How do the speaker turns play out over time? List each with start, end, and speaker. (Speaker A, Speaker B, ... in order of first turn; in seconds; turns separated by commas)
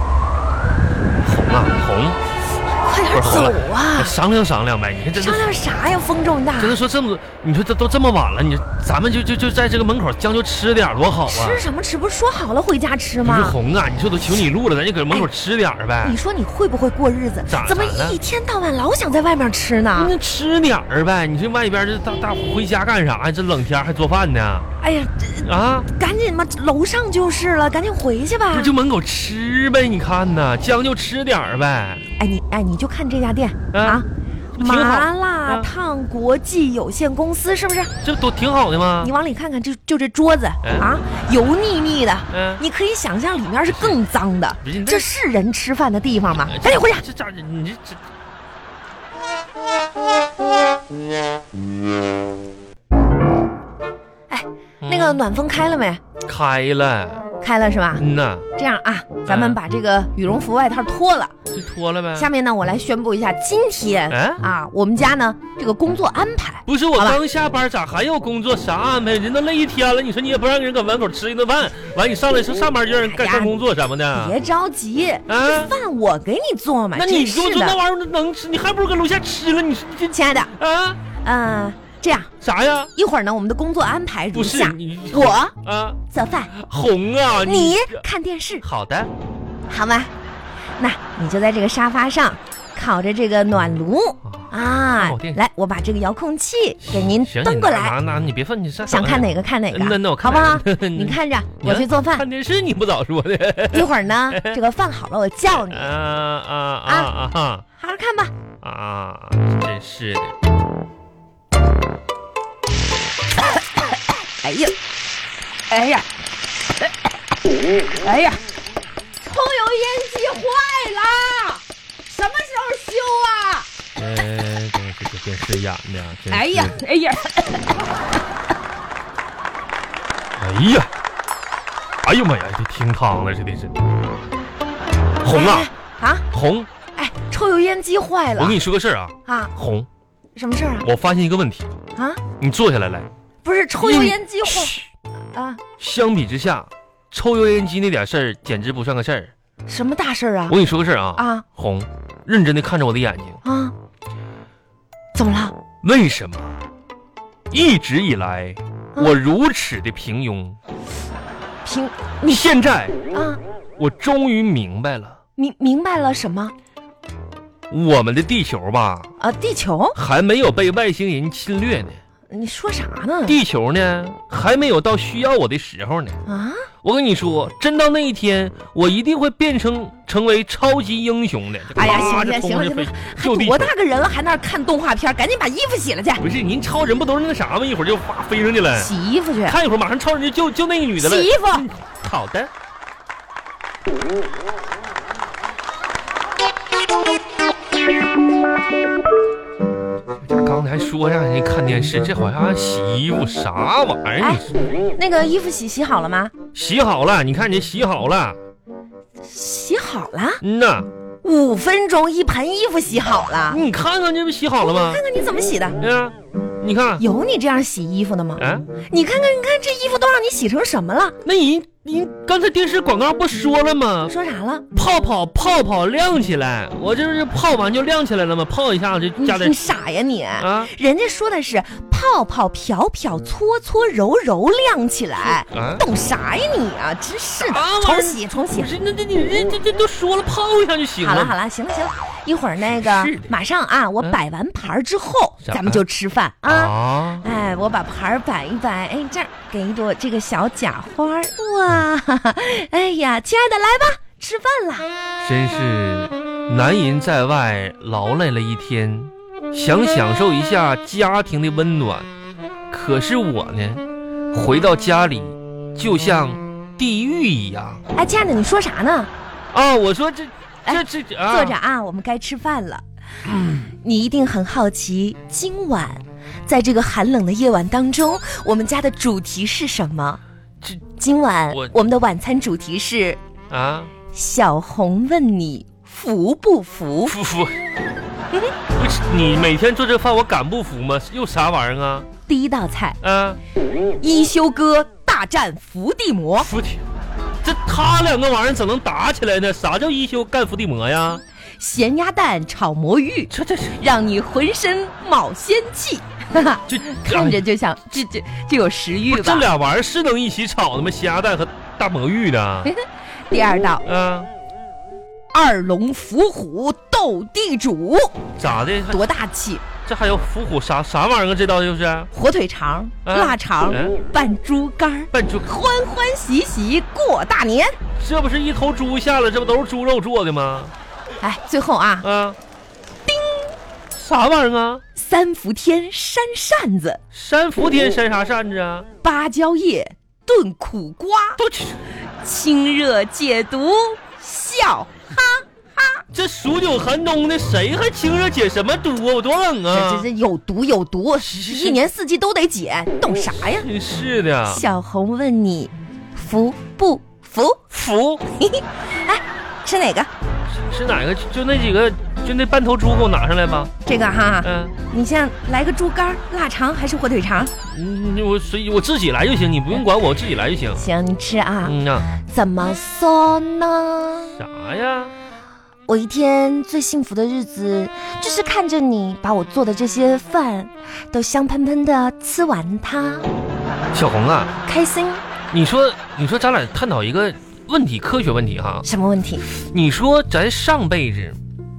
Speaker A: 1.2-2.2, Speaker B: 2.8-4.2, Speaker A: 3.1-5.5, Speaker B: 5.1-6.8, Speaker A: 6.6-11.7, Speaker B: 11.3-13.6, Speaker A: 13.2-16.2, Speaker B: 16.0-20.1, Speaker A: 17.5-18.2, Speaker A: 19.9-24.7, Speaker B: 24.8-28.7, Speaker A: 25.4-25.9, Speaker A: 28.5-32.0, Speaker B: 32.2-37.9, Speaker A: 33.7-34.0, Speaker A: 34.5-35.7, Speaker A: 38.0-39.1, Speaker B: 39.0-47.0, Speaker A: 40.6-40.9, Speaker A: 42.3-42.6, Speaker A: 43.7-44.0, Speaker A: 44.6-45.1, Speaker A: 46.5-48.0, Speaker B: 54.3-56.0, Speaker A: 54.8-55.2, Speaker A: 56.2-57.2, Speaker B: 57.4-58.0, Speaker A: 58.0-58.5, Speaker B: 58.5-61.3, Speaker A: 59.3-59.6, Speaker A: 61.5-62.3, Speaker B: 62.2-67.2, Speaker A: 64.1-64.4, Speaker A: 66.7-74.4, Speaker B: 73.0-73.6, Speaker B: 74.1-77.8, Speaker A: 75.3-75.7, Speaker A: 76.9-81.0, Speaker B: 80.1-80.5, Speaker B: 81.2-82.3, Speaker A: 82.4-82.9, Speaker B: 83.0-85.5, Speaker A: 84.3-86.0, Speaker B: 86.1-86.5, Speaker A: 86.5-88.0, Speaker B: 87.4-88.6, Speaker A: 88.6-89.1, Speaker B: 89.7-90.1, Speaker B: 90.8-98.0, Speaker A: 94.2-95.4, Speaker A: 96.8-104.6, Speaker B: 98.9-102.3, Speaker B: 103.7-105.9, Speaker A: 105.6-107.6, Speaker B: 106.9-107.1, Speaker B: 107.8-108.3, Speaker A: 108.6-110.4, Speaker B: 114.3-114.8, Speaker B: 115.7-116.1, Speaker B: 117.9-118.4, Speaker B: 119.2-123.7, Speaker A: 124.0-126.8, Speaker B: 126.3-127.7, Speaker A: 130.4-130.9, Speaker A: 132.0-133.8, Speaker A: 135.2-135.7, Speaker B: 135.3-136.2, Speaker A: 136.3-136.7, Speaker B: 136.9-138.6, Speaker A: 138.4-139.9, Speaker B: 139.3-139.5, Speaker B: 140.3-140.9, Speaker A: 140.8-141.7, Speaker B: 141.9-142.2, Speaker A: 142.4-143.1, Speaker B: 143.4-144.8, Speaker A: 143.8-144.8, Speaker B: 145.3-145.6, Speaker A: 145.8-149.3, Speaker B: 149.7-150.6, Speaker A: 150.5-153.4, Speaker B: 151.2-151.4, Speaker B: 153.4-153.8, Speaker B: 155.2-155.6, Speaker A: 155.8-156.5, Speaker A: 157.5-160.6, Speaker B: 161.6-162.5, Speaker A: 162.2-162.9, Speaker B: 163.1-163.4, Speaker A: 163.8-165.2, Speaker B: 165.4-166.5, Speaker A: 167.7-169.1, Speaker B: 169.2-170.0, Speaker A: 169.9-172.0, Speaker B: 172.3-173.4, Speaker A: 173.3-176.2, Speaker B: 176.3-176.7, Speaker A: 176.8-183.7, Speaker B: 181.7-186.2, Speaker A: 186.2-188.9, Speaker B: 188.8-189.6, Speaker A: 189.5-192.5, Speaker B: 191.0-191.7, Speaker A: 200.2-204.6, Speaker B: 204.2-206.3, Speaker A: 206.6-208.4, Speaker B: 209.2-210.4, Speaker A: 210.4-210.9, Speaker B: 211.2-213.6, Speaker A: 213.5-215.0, Speaker B: 214.6-215.8, Speaker A: 215.8-217.0, Speaker B: 217.0-221.2, Speaker A: 218.4-218.7, Speaker A: 221.2-224.1, Speaker B: 224.1-224.7, Speaker A: 224.7-229.6, Speaker B: 229.2-238.7, Speaker A: 230.4-230.7, Speaker A: 235.5-235.9, Speaker A: 237.4-241.3, Speaker B: 241.0-254.9, Speaker A: 242.6-243.3, Speaker A: 245.4-245.8, Speaker A: 246.5-247.2, Speaker A: 255.2-262.1, Speaker A: 262.7-267.8, Speaker B: 267.9-269.1, Speaker A: 269.5-271.6, Speaker B: 270.7-272.8, Speaker A: 273.3-273.7, Speaker B: 273.8-280.2, Speaker B: 281.0-283.2, Speaker A: 283.5-283.9, Speaker B: 284.1-287.2, Speaker A: 287.1-287.6, Speaker A: 288.8-292.1, Speaker B: 292.3-293.0, Speaker A: 293.0-293.4, Speaker B: 294.0-296.5, Speaker A: 296.4-296.8, Speaker A: 297.4-301.2, Speaker B: 301.6-309.5, Speaker A: 303.3-303.8, Speaker A: 306.7-307.4, Speaker A: 309.1-312.7, Speaker B: 312.6-313.9, Speaker A: 313.9-314.3, Speaker B: 315.3-318.2, Speaker A: 318.4-319.0, Speaker B: 318.9-319.6, Speaker A: 319.9-322.1, Speaker B: 322.1-327.8, Speaker A: 323.1-324.0, Speaker A: 325.1-325.5, Speaker A: 328.0-330.7, Speaker B: 331.2-332.1, Speaker A: 332.0-332.4, Speaker B: 333.1-333.5, Speaker A: 333.9-334.8, Speaker B: 334.9-337.0, Speaker A: 337.1-338.9, Speaker B: 339.0-341.4, Speaker A: 341.4-341.8, Speaker B: 342.2-346.0, Speaker A: 346.1-350.1, Speaker B: 349.7-353.7, Speaker A: 351.2-351.8, Speaker A: 353.4-354.6, Speaker B: 354.5-357.6, Speaker A: 357.7-358.2, Speaker B: 358.3-360.1, Speaker A: 360.5-363.7, Speaker B: 363.9-367.5, Speaker A: 364.4-364.8, Speaker A: 367.7-370.8, Speaker B: 370.8-374.3, Speaker A: 371.6-372.1, Speaker A: 374.4-375.1, Speaker B: 375.9-383.3, Speaker A: 383.9-384.5, Speaker B: 384.6-385.2, Speaker A: 385.5-388.9, Speaker B: 388.8-389.4, Speaker A: 389.5-391.4